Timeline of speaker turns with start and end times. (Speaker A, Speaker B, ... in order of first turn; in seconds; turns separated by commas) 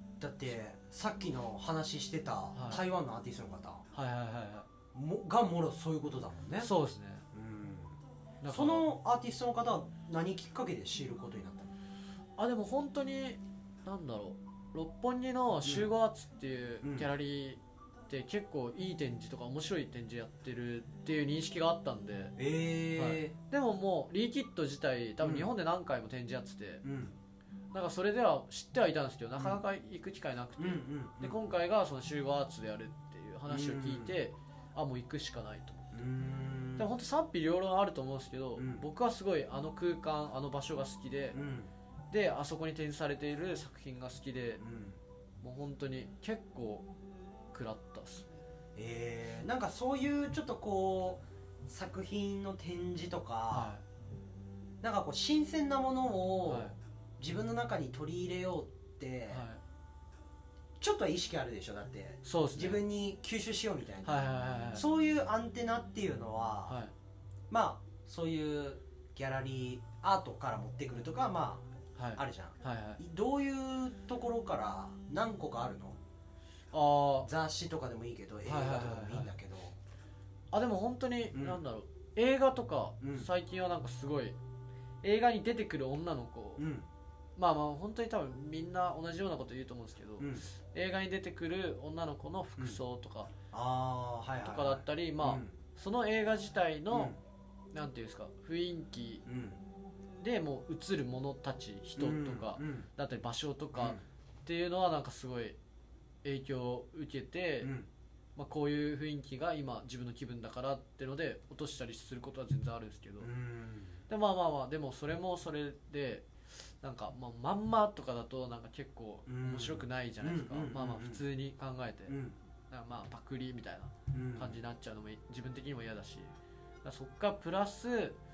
Speaker A: 0.2-3.9, Speaker B: 2.5-2.8, Speaker B: 3.9-4.7, Speaker A: 4.9-6.7, Speaker B: 6.6-7.3, Speaker A: 7.3-11.7, Speaker B: 8.4-8.9, Speaker B: 12.4-22.4, Speaker A: 15.6-15.9, Speaker A: 16.8-17.1, Speaker A: 22.4-23.3, Speaker B: 23.0-26.9, Speaker A: 25.2-25.5, Speaker A: 26.8-27.2, Speaker B: 27.7-36.0, Speaker A: 30.6-31.4, Speaker A: 33.5-34.2, Speaker A: 35.9-36.9, Speaker B: 36.8-41.4, Speaker A: 38.6-38.9, Speaker A: 41.3-41.7, Speaker B: 42.1-44.6, Speaker A: 44.6-45.0, Speaker B: 45.4-46.9, Speaker B: 47.5-48.3, Speaker A: 48.8-53.7, Speaker B: 53.5-53.8, Speaker A: 54.8-59.4, Speaker B: 56.5-56.8, Speaker B: 59.3-59.6, Speaker A: 60.8-66.8, Speaker B: 62.2-62.8, Speaker B: 64.0-64.9, Speaker B: 66.7-66.9, Speaker A: 67.5-76.0, Speaker B: 72.0-73.0, Speaker B: 76.7-77.3, Speaker A: 77.2-79.8, Speaker B: 78.5-79.3, Speaker B: 80.5-84.4, Speaker A: 81.3-81.6, Speaker A: 83.0-83.3, Speaker B: 85.0-86.7, Speaker A: 86.6-86.9, Speaker B: 87.4-93.3, Speaker A: 90.2-90.5, Speaker A: 93.5-95.5, Speaker B: 94.4-97.2, Speaker A: 96.9-97.2, Speaker B: 97.7-99.3, Speaker A: 99.3-99.6, Speaker B: 100.2-105.6, Speaker A: 102.0-102.9, Speaker A: 103.8-104.0, Speaker B: 106.2-107.7, Speaker A: 107.6-107.9, Speaker B: 108.4-113.3, Speaker A: 113.2-114.0, Speaker B: 114.1-116.3, Speaker B: 116.8-126.3, Speaker A: 119.3-121.2, Speaker A: 122.1-122.4, Speaker A: 124.1-124.6, Speaker B: 126.8-128.2